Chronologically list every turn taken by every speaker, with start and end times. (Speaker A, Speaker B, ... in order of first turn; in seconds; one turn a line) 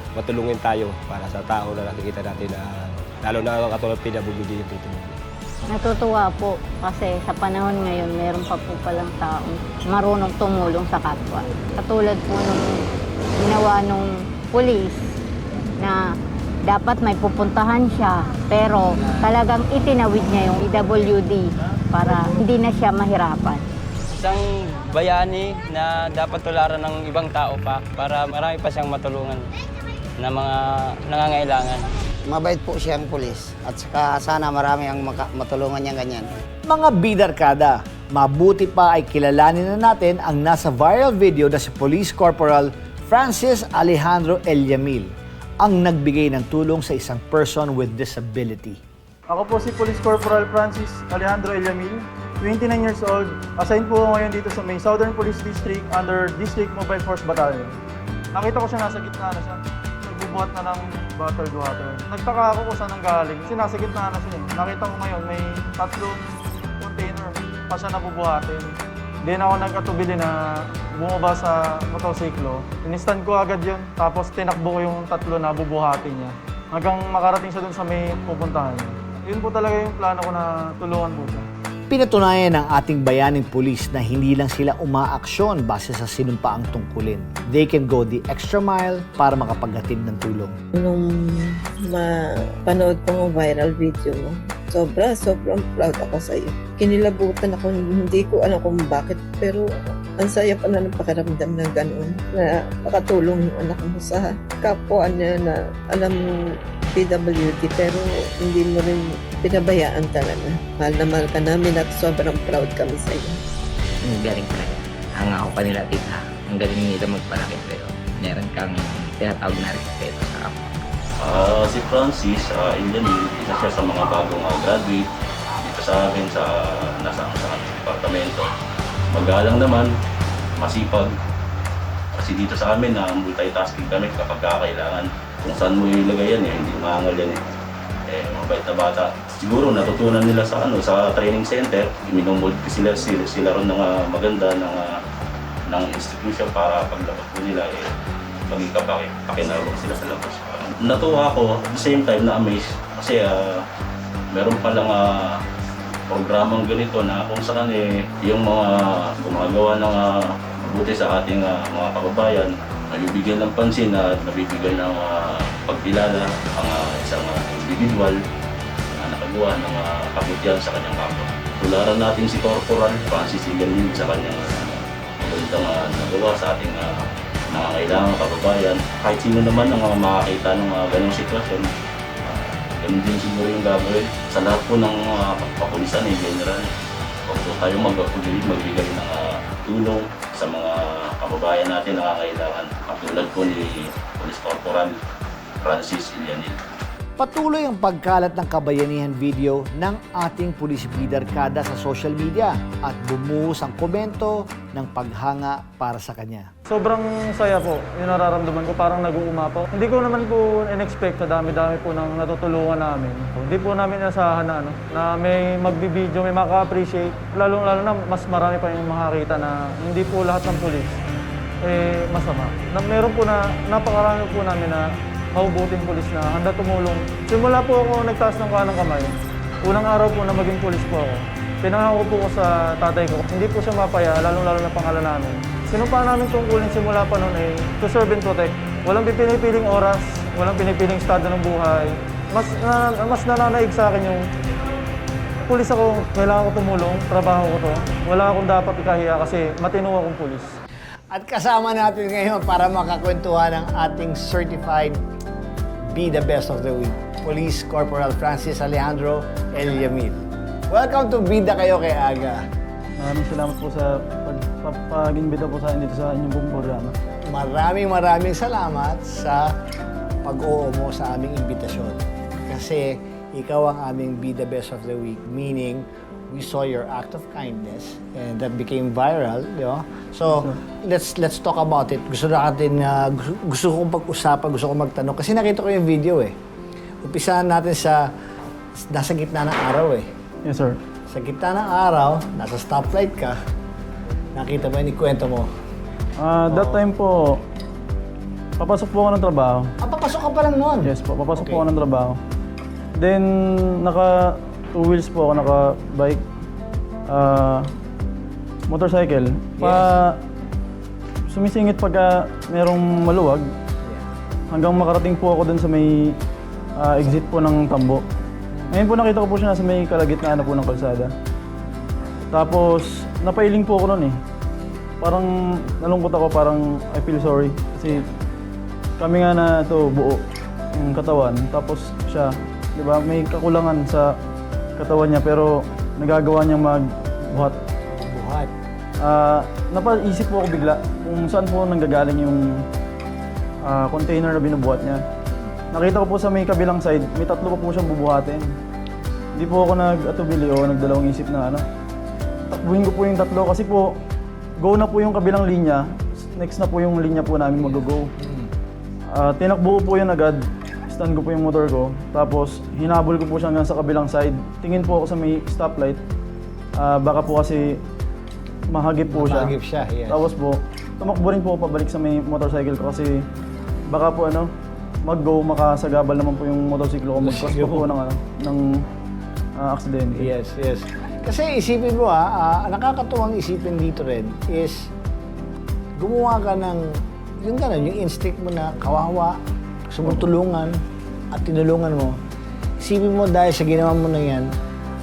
Speaker A: 0.2-2.7
Speaker A: 3.2-5.2
Speaker B: 5.7-12.8
Speaker B: 13.4-15.0
Speaker B: 15.8-16.1
Speaker B: 16.6-23.6
Speaker C: 24.1-29.4
Speaker C: 30.2-31.9
Speaker D: 32.3-36.2
Speaker E: 36.7-48.8
Speaker F: 49.3-57.8
Speaker F: 58.3-66.2
Speaker F: 66.8-68.7
Speaker F: 69.2-81.5
Speaker E: 81.9-90.5
Speaker G: 90.8-106.4
Speaker G: 106.9-113.4
Speaker H: 114.1-120.7
Speaker I: 121.2-125.0
Speaker I: 125.6-128.5
Speaker I: 129.1-129.9
Speaker I: 130.6-131.1
Speaker I: 132.2-137.4
Speaker I: 138.1-144.9
Speaker I: 145.7-147.9
Speaker I: 148.5-153.6
Speaker I: 154.3-155.4
Speaker I: 156.1-168.2
Speaker I: 168.9-176.9
Speaker I: 177.5-181.7
Speaker I: 182.3-186.7
Speaker I: 187.3-194.9
Speaker I: 195.6-196.6
Speaker E: 197.2-206.5
Speaker F: 206.7-221.0
Speaker F: 221.6-244.2
Speaker F: 245.5-250.5
Speaker E: 251.1-255.0
Speaker E: 255.9-262.4
Speaker F: 263.0-266.9
Speaker E: 267.3-269.5
Speaker E: 270.2-286.3
Speaker F: 280.3-280.6
Speaker E: 287.0-288.0
Speaker E: 288.9-290.1
Speaker F: 290.4-290.8
Speaker E: 291.1-293.4
Speaker E: 294.4-295.5
Speaker F: 296.2-297.4
Speaker E: 296.5-296.8
Speaker F: 298.6-299.7
Speaker E: 299.8-301.6
Speaker F: 300.8-302.2
Speaker F: 303.0-306.2
Speaker F: 307.1-307.7
Speaker F: 308.7-310.2
Speaker E: 309.6-310.0
Speaker F: 311.3-313.5
Speaker E: 313.8-314.1
Speaker F: 314.5-316.1
Speaker F: 316.8-318.0
Speaker E: 318.5-318.8
Speaker F: 318.7-321.1
Speaker F: 322.3-324.2
Speaker F: 325.0-328.1
Speaker F: 329.0-330.2
Speaker F: 330.7-334.1
Speaker F: 334.8-337.6
Speaker E: 337.9-338.5
Speaker F: 339.0-342.5
Speaker F: 343.6-345.0
Speaker F: 345.7-348.5
Speaker F: 349.4-351.6
Speaker F: 352.5-353.9
Speaker F: 354.6-358.1
Speaker E: 357.6-358.5
Speaker F: 359.1-366.0
Speaker F: 366.8-367.8
Speaker F: 368.7-369.5
Speaker E: 369.1-370.3
Speaker F: 370.1-373.2
Speaker F: 373.9-374.5
Speaker F: 375.1-378.6
Speaker E: 377.2-377.9
Speaker F: 379.6-380.3
Speaker E: 380.1-384.9
Speaker E: 386.0-389.4
Speaker E: 389.9-390.7
Speaker E: 391.3-392.2
Speaker E: 392.8-394.5